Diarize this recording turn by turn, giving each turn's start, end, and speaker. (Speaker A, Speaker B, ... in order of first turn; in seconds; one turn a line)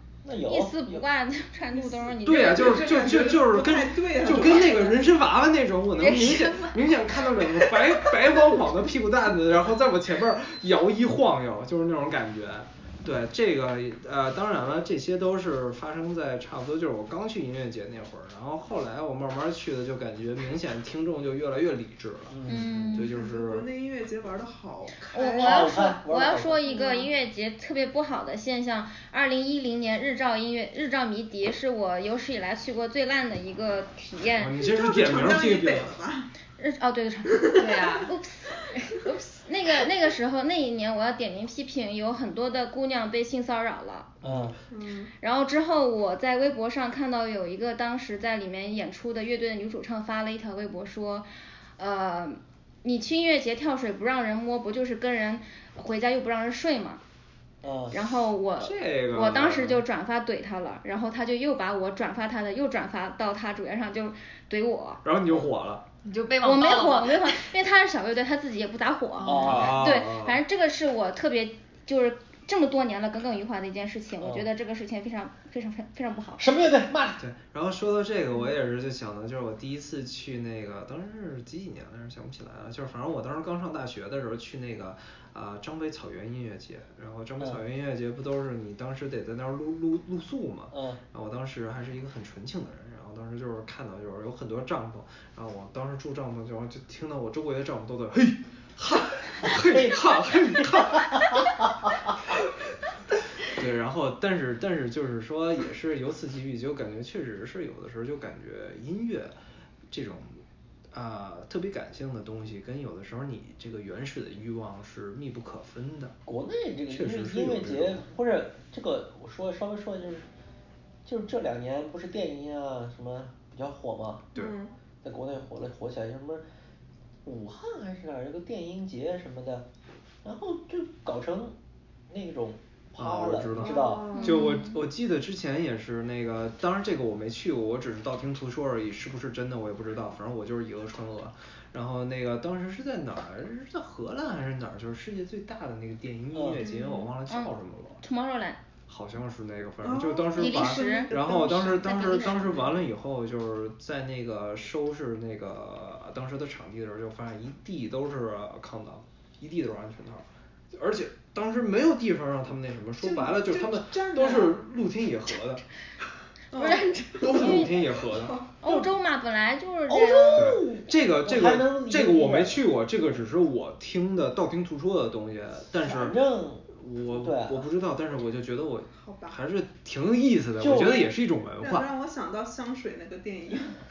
Speaker A: 0.2-1.0
Speaker B: 0.3-3.2
Speaker C: 1.7-5.0
Speaker D: 2.2-23.6
Speaker E: 6.0-6.8
Speaker A: 22.3-22.8
Speaker B: 22.5-23.1
Speaker C: 23.0-25.7
Speaker B: 25.1-34.6
Speaker A: 25.2-26.6
Speaker C: 26.7-27.1
Speaker D: 34.4-35.9
Speaker C: 34.6-36.3
Speaker B: 36.6-44.1
Speaker C: 37.3-37.7
Speaker E: 37.6-38.1
Speaker A: 44.2-44.5
Speaker D: 44.2-44.5
Speaker C: 44.7-45.1
Speaker B: 45.2-51.3
Speaker B: 51.8-57.0
Speaker A: 57.6-58.0
Speaker B: 57.9-65.0
Speaker D: 58.6-59.8
Speaker D: 65.0-65.8
Speaker E: 66.0-67.5
Speaker B: 66.4-76.5
Speaker E: 69.2-69.5
Speaker A: 69.2-69.9
Speaker D: 69.4-70.4
Speaker A: 74.2-74.5
Speaker A: 76.4-77.2
Speaker D: 77.2-101.5
Speaker A: 90.7-91.0
Speaker A: 99.4-102.0
Speaker D: 103.4-109.3
Speaker D: 109.9-116.1
Speaker A: 116.2-120.3
Speaker D: 116.9-118.0
Speaker A: 121.0-124.3
Speaker C: 124.3-124.7
Speaker A: 125.0-126.4
Speaker A: 127.2-129.7
Speaker A: 130.2-131.5
Speaker A: 132.1-134.1
Speaker D: 133.0-148.0
Speaker C: 133.6-134.4
Speaker B: 134.1-134.8
Speaker A: 146.3-146.6
Speaker B: 146.6-148.6
Speaker C: 146.6-147.1
Speaker D: 148.9-165.6
Speaker C: 149.8-152.7
Speaker B: 150.3-152.7
Speaker C: 163.0-164.6
Speaker B: 166.5-167.7
Speaker C: 166.5-168.4
Speaker D: 167.2-168.4
Speaker B: 168.6-170.5
Speaker A: 168.7-168.9
Speaker A: 169.9-172.6
Speaker D: 170.3-176.2
Speaker A: 175.8-177.7
Speaker D: 176.7-181.9
Speaker C: 179.0-179.4
Speaker A: 180.6-181.0
Speaker C: 181.6-183.8